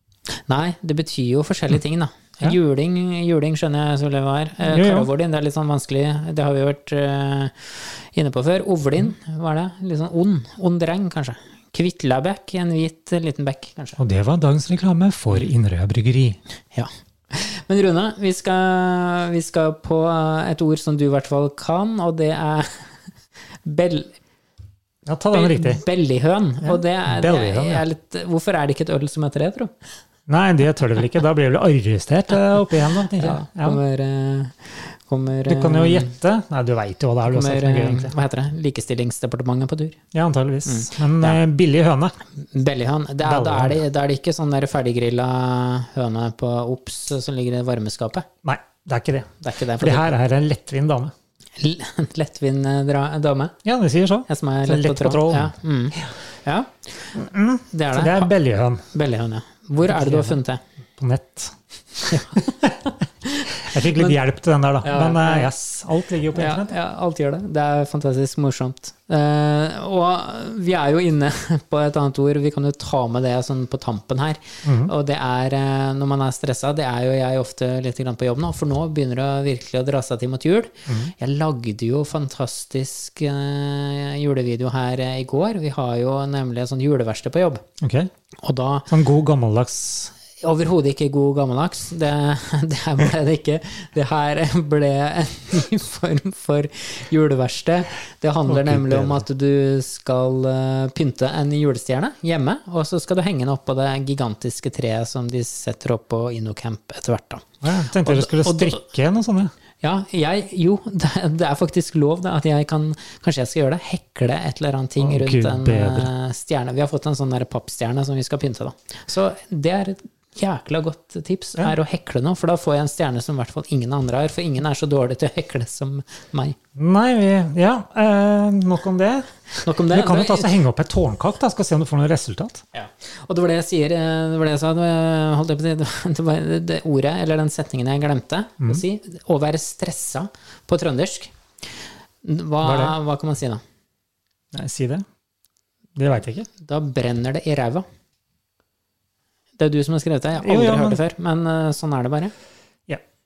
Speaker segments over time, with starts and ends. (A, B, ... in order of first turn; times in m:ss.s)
0:00.4-0:14.0 A
0:04.6-0:05.1 B
0:14.0-0:16.4 B
0:16.7-0:22.9 A
0:23.6-0:24.1 A
0:25.0-0:25.8 B
0:25.3-0:29.7 A
0:26.6-0:27.8 B
0:30.3-0:33.8 B
0:33.2-0:36.1 A
0:35.5-0:38.1 B
0:37.2-0:40.0 A
0:40.1-0:42.1 B
0:40.6-0:41.4 A
0:42.4-0:48.3 A
0:43.2-0:43.8 B
0:48.4-0:51.1 B
0:49.4-0:50.2 A
0:51.6-0:53.6 A
0:53.6-0:56.1 B
0:54.3-0:57.2 A
0:57.1-0:58.8 B
0:57.7-0:58.3 A
0:58.9-1:00.6 A
0:59.8-1:00.4 B
1:01.0-1:02.9 B
1:02.1-1:02.6 A
1:03.2-1:04.2 A
1:03.5-1:06.7 B
1:04.8-1:05.5 A
1:06.3-1:27.6 A
1:14.6-1:14.9 B
1:20.9-1:21.1 B
1:27.8-1:28.1 B
1:28.4-1:28.9 A
1:28.9-1:30.1 B
1:30.4-1:47.5 A
1:38.5-1:39.2 B
1:47.6-1:49.5 B
1:48.0-1:48.8 A
1:49.8-2:06.6 A
1:55.0-1:56.1 B
2:06.8-2:09.3 B
2:09.6-2:10.6 A
2:09.8-2:12.6 B
2:12.7-2:21.3 A
2:22.2-2:23.6 A
2:22.6-2:23.0 B
2:24.5-2:25.0 B
2:25.9-2:26.5 B
2:26.6-2:27.8 A
2:29.6-2:32.3 A
2:30.4-2:31.0 B